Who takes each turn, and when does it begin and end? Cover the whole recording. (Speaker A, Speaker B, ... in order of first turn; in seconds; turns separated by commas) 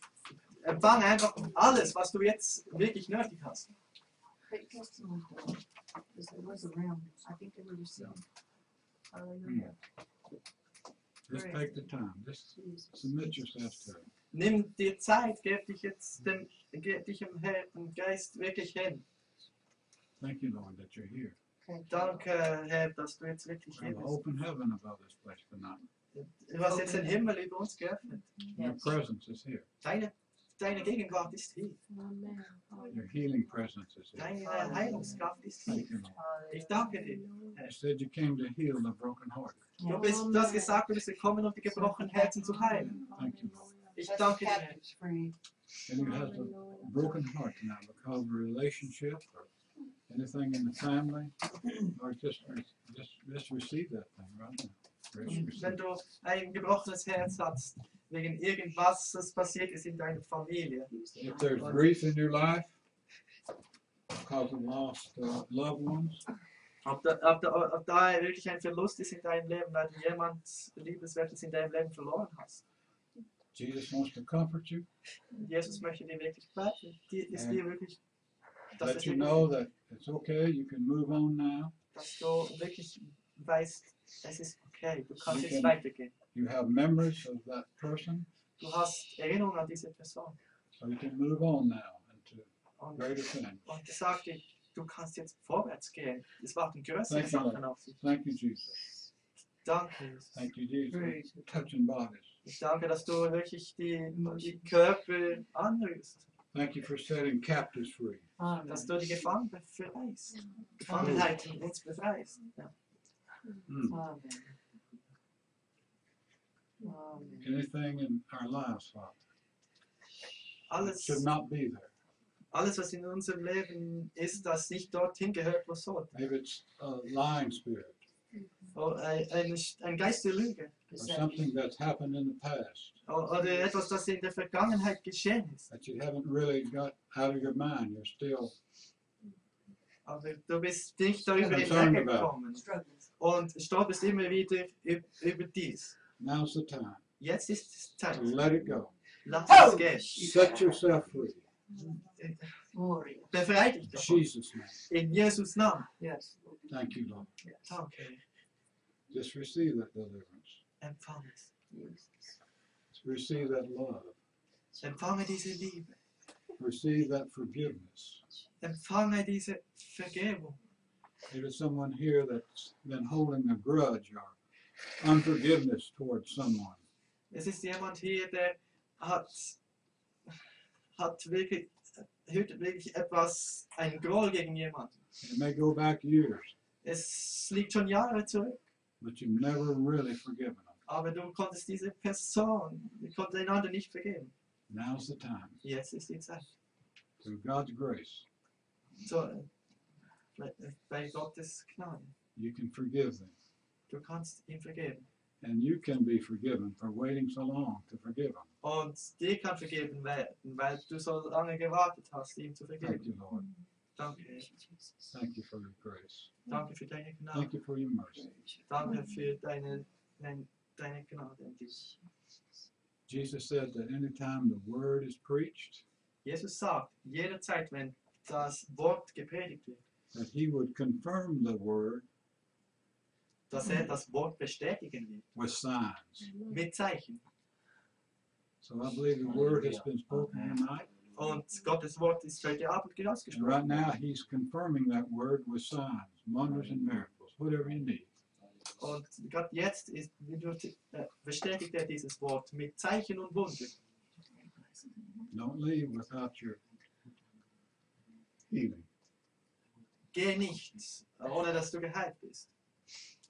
Speaker A: 0.6-3.7, Speaker B: 4.5-5.6, Speaker B: 6.1-8.2, Speaker B: 9.1-9.7, Speaker C: 9.4-9.7, Speaker C: 11.3-14.1, Speaker B: 11.3-11.7, Speaker A: 14.3-19.1, Speaker C: 20.2-21.4, Speaker B: 21.7-22.2, Speaker A: 21.9-24.1, Speaker C: 23.7-25.8, Speaker A: 26.1-28.4, Speaker B: 26.7-27.2, Speaker B: 28.4-28.9, Speaker C: 28.6-29.7, Speaker A: 29.8-31.8, Speaker D: 31.9-33.3, Speaker C: 32.9-35.0, Speaker A: 34.2-35.9, Speaker B: 34.4-35.2, Speaker C: 35.7-36.2, Speaker B: 36.1-36.8, Speaker A: 36.5-37.7, Speaker D: 37.0-37.6, Speaker C: 37.6-39.7, Speaker B: 39.8-40.1, Speaker A: 39.9-43.0, Speaker D: 39.9-40.9, Speaker B: 41.7-43.0, Speaker D: 42.5-44.1, Speaker C: 43.1-43.7, Speaker A: 44.0-44.8, Speaker B: 44.0-45.3, Speaker C: 45.9-49.5, Speaker D: 46.0-47.2, Speaker C: 50.1-55.8, Speaker A: 55.4-60.9, Speaker B: 60.9-61.8, Speaker C: 61.1-62.8, Speaker C: 64.1-66.2, Speaker A: 66.8-72.6, Speaker C: 73.5-74.9, Speaker A: 75.4-78.0, Speaker C: 77.3-77.6, Speaker A: 78.8-79.5, Speaker C: 78.8-81.7, Speaker A: 81.9-86.1, Speaker C: 85.2-85.8, Speaker C: 86.3-88.3, Speaker A: 88.6-90.4, Speaker C: 90.8-93.7, Speaker A: 92.8-98.0, Speaker C: 97.1-98.8, Speaker A: 99.7-100.3, Speaker C: 100.3-102.3, Speaker B: 100.9-101.7, Speaker A: 102.5-106.2, Speaker B: 104.1-104.7, Speaker C: 106.5-108.3, Speaker B: 108.4-109.0, Speaker A: 108.7-112.7, Speaker B: 110.9-111.3, Speaker C: 111.0-111.3, Speaker C: 113.7-114.0, Speaker B: 113.9-114.5, Speaker B: 116.8-117.6, Speaker C: 117.4-119.2, Speaker A: 120.7-121.2, Speaker C: 120.8-121.9, Speaker A: 122.5-126.1, Speaker C: 126.1-128.0, Speaker A: 128.7-130.8, Speaker B: 130.9-131.5, Speaker C: 131.0-133.0, Speaker A: 133.1-135.7, Speaker C: 135.7-138.6, Speaker A: 140.1-142.7, Speaker B: 141.4-142.0, Speaker C: 141.4-142.3, Speaker B: 142.6-143.1, Speaker A: 143.2-145.9, Speaker C: 146.2-147.0, Speaker A: 147.2-148.3, Speaker C: 148.1-148.9, Speaker A: 149.2-150.2, Speaker B: 149.4-150.8, Speaker C: 150.1-151.5, Speaker B: 152.7-153.3, Speaker A: 153.3-154.3, Speaker C: 153.9-154.8, Speaker A: 154.9-155.9, Speaker B: 156.0-156.5, Speaker C: 156.7-157.3, Speaker B: 157.4-157.8, Speaker A: 157.7-158.2, Speaker C: 159.1-160.6, Speaker A: 160.8-161.5, Speaker B: 161.7-162.3, Speaker C: 162.9-164.2, Speaker A: 164.8-166.0, Speaker C: 166.6-168.2, Speaker A: 168.6-170.6, Speaker C: 171.3-174.4, Speaker C: 175.0-176.8, Speaker A: 177.3-179.6, Speaker A: 181.0-185.0, Speaker C: 185.2-186.6, Speaker A: 186.8-188.6, Speaker C: 189.0-190.8, Speaker A: 190.9-194.3, Speaker C: 194.7-195.6, Speaker A: 195.6-196.5, Speaker C: 197.2-198.2, Speaker A: 199.0-199.5, Speaker A: 200.4-202.1, Speaker C: 202.3-203.3, Speaker A: 203.9-205.1, Speaker C: 205.4-208.5, Speaker A: 208.6-213.1, Speaker C: 212.8-213.5, Speaker A: 214.0-214.5, Speaker B: 214.1-215.1, Speaker C: 215.1-216.3, Speaker A: 216.5-217.5, Speaker C: 217.3-218.2, Speaker B: 218.1-219.0, Speaker A: 218.7-221.9, Speaker C: 223.1-225.8, Speaker A: 226.2-229.8, Speaker C: 230.1-232.1, Speaker A: 233.5-235.3, Speaker B: 233.6-233.9, Speaker C: 235.3-236.3, Speaker D: 236.2-236.7, Speaker A: 236.5-237.2, Speaker C: 238.6-240.9, Speaker A: 241.2-243.9, Speaker C: 243.3-248.1, Speaker A: 248.8-253.7, Speaker B: 254.4-255.3, Speaker C: 255.3-256.6, Speaker C: 258.5-258.9, Speaker A: 260.1-262.5